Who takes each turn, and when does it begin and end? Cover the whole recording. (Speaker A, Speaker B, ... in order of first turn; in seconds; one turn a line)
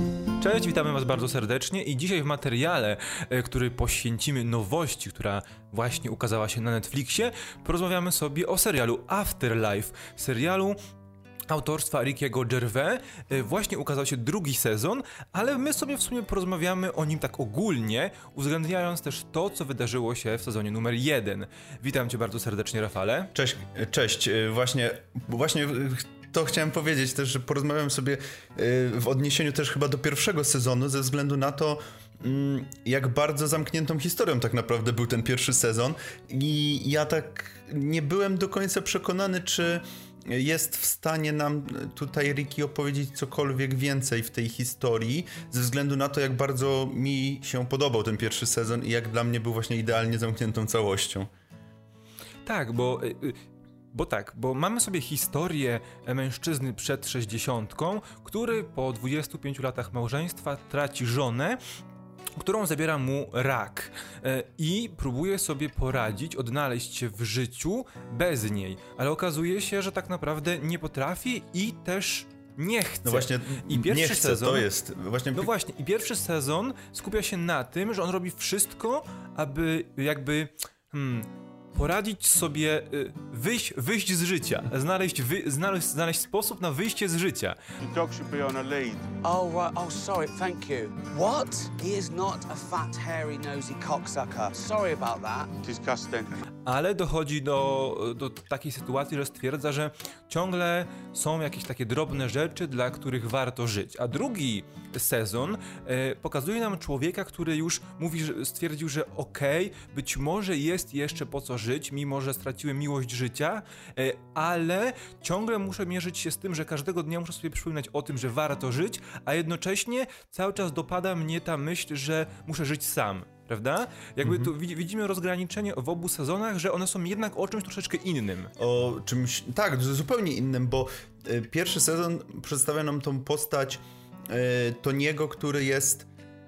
Speaker A: 0.4-10.8
Speaker A: 11.5-23.3
Speaker B: 23.4-51.3
Speaker A: 52.5-53.4
Speaker A: 53.9-61.6
Speaker A: 62.4-74.7
Speaker B: 73.0-75.5
Speaker A: 75.3-87.6
Speaker C: 87.8-89.1
Speaker D: 89.2-95.5
Speaker C: 95.6-96.3
Speaker A: 96.7-128.5
Speaker B: 124.2-124.5
Speaker B: 128.6-136.1